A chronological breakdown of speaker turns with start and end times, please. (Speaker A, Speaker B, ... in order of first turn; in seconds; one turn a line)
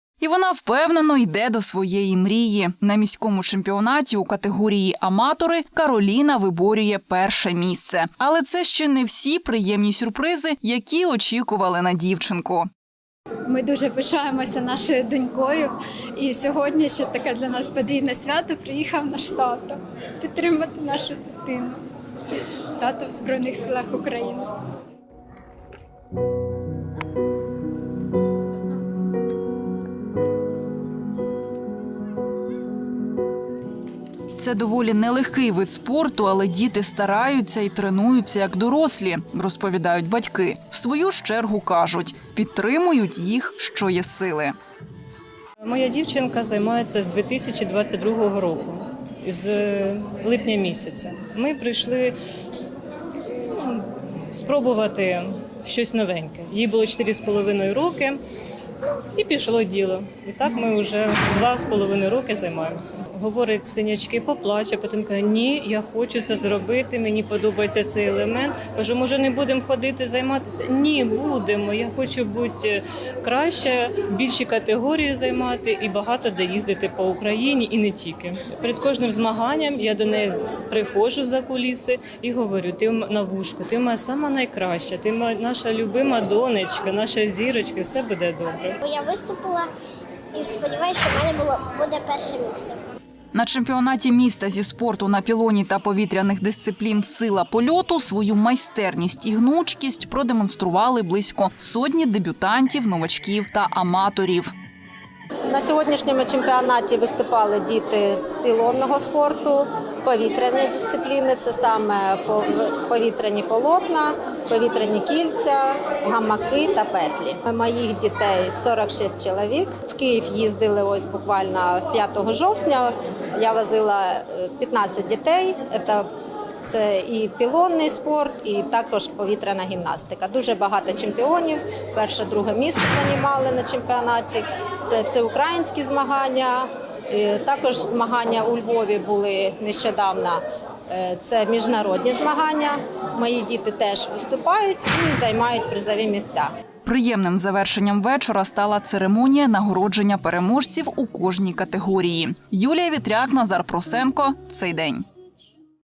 Speaker A: 0.2-12.7
Speaker B: 13.5-21.8
Speaker B: 22.8-24.5
Speaker A: 34.4-44.5
Speaker C: 45.6-52.1
Speaker C: 53.5-58.2
Speaker C: 59.1-88.8
Speaker D: 88.8-89.7
Speaker D: 90.3-92.8
Speaker A: 93.3-104.5
Speaker E: 105.5-126.1
Speaker E: 126.7-146.5
Speaker A: 146.8-155.1